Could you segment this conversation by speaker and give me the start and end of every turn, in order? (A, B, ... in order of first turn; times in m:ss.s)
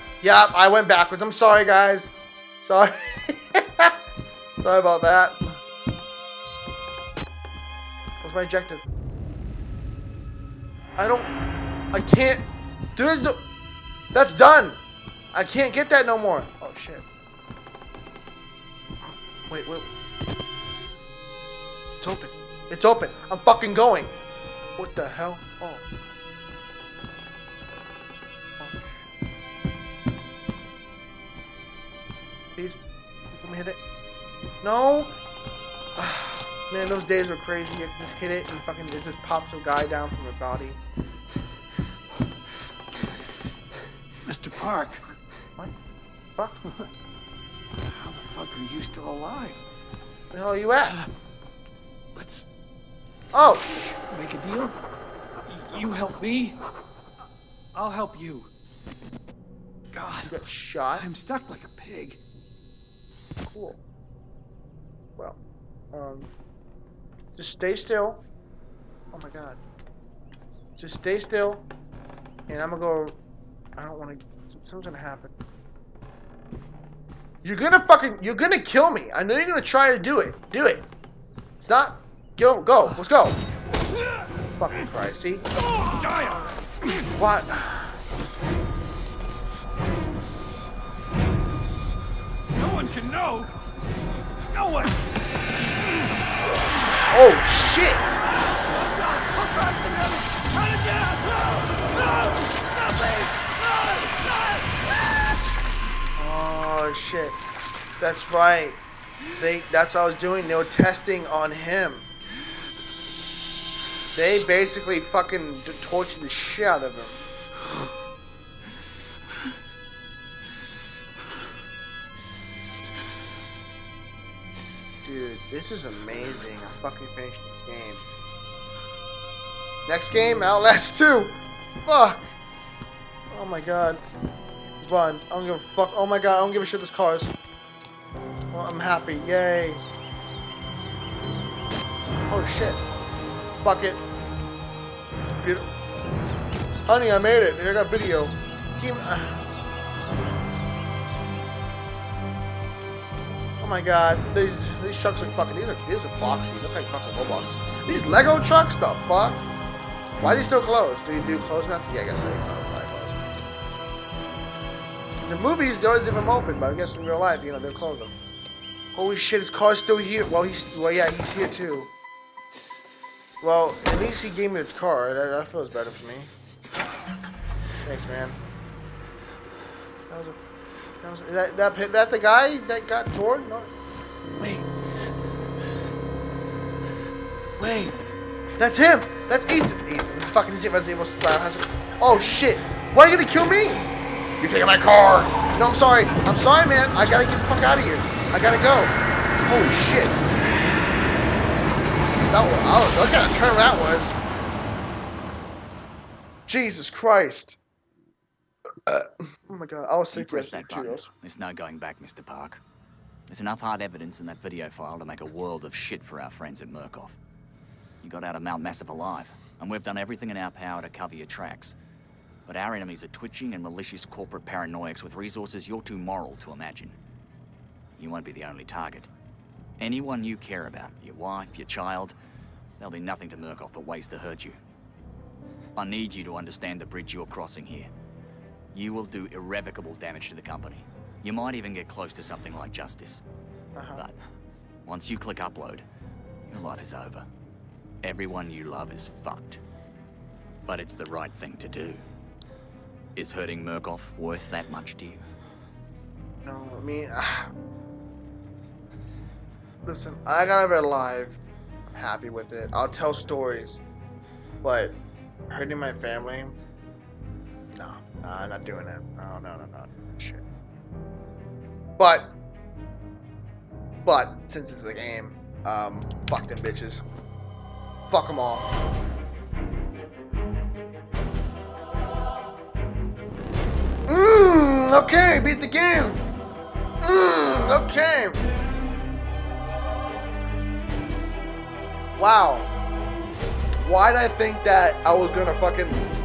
0:00.2-0:04.0 A
0:04.6-0:05.6 A
0:08.2-0:08.9 A
0:11.0-0:11.3 A
0:11.9-0:13.4 A
0:14.1-0:14.8 A
0:15.3-0:17.0 A
0:19.5-0:19.9 A
0:22.0-0:24.2 A
0:24.8-0:25.8 A
0:28.6-0:29.0 A
0:33.4-0:33.8 A
0:34.6-0:35.1 A
0:36.0-0:40.8 A
0:44.2-0:45.0 B
0:47.9-0:49.6 B
0:50.3-0:51.0 A
0:50.8-0:51.1 B
0:52.1-0:52.5 B
0:53.3-0:54.0 A
0:54.1-0:54.8 B
0:55.5-0:56.6 B
0:57.7-0:58.5 B
0:59.9-1:00.4 B
1:00.2-1:01.1 A
1:01.0-1:02.2 B
1:03.5-1:03.8 A
1:05.9-1:06.3 A
1:07.4-1:08.2 A
1:09.1-1:09.6 A
1:10.8-1:11.6 A
1:12.5-1:13.2 A
1:13.8-1:15.4 A
1:17.4-1:20.9 A
1:21.6-1:23.4 A
1:24.6-1:25.4 A
1:25.6-1:26.6 B
1:27.2-1:28.0 A
1:32.5-1:33.6 B
1:34.5-1:35.0 B
1:37.1-1:38.2 A
1:38.4-1:45.3 B
1:46.2-1:47.4 A
1:48.0-1:48.8 A
1:49.4-1:52.1 A
1:54.1-1:57.2 A
2:05.0-2:08.0 A
2:09.9-2:12.3 A
2:13.3-2:14.0 A
2:14.8-2:17.3 A
2:18.5-2:19.8 A
2:22.3-2:22.8 A
2:23.6-2:24.0 A
2:25.4-2:25.7 A
2:26.9-2:29.4 A
2:33.6-2:39.4 A
2:40.2-2:43.3 A
2:45.2-2:48.1 A
2:49.0-2:51.9 A
2:53.4-2:56.3 A
2:57.8-2:58.4 A
3:00.1-3:00.4 A
3:01.0-3:03.7 A
3:04.4-3:04.7 A
3:07.6-3:08.0 A
3:08.6-3:13.8 A
3:14.4-3:19.0 A
3:19.5-3:20.2 A
3:22.3-3:24.2 A
3:26.5-3:27.6 A
3:28.9-3:31.1 A
3:30.1-3:32.6 C
3:33.3-3:37.2 C
3:38.0-3:41.8 C
3:42.5-3:47.0 C
3:48.0-3:49.1 C
3:49.8-3:52.2 C
3:52.8-3:54.6 C
3:55.8-3:57.9 C
3:58.7-4:03.2 C
4:03.8-4:04.0 A
4:04.8-4:05.8 C
4:06.5-4:07.3 C
4:08.0-4:09.6 C
4:10.7-4:12.0 C
4:13.2-4:15.2 C
4:16.4-4:17.5 A
4:19.8-4:23.8 A
4:24.6-4:25.0 A
4:25.5-4:26.6 A
4:27.8-4:30.4 A
4:32.0-4:32.3 A
4:34.0-4:37.0 A
4:38.1-4:38.7 A
4:44.1-4:46.2 A
4:47.0-4:48.4 A
4:52.2-4:52.7 A
4:53.8-4:56.0 A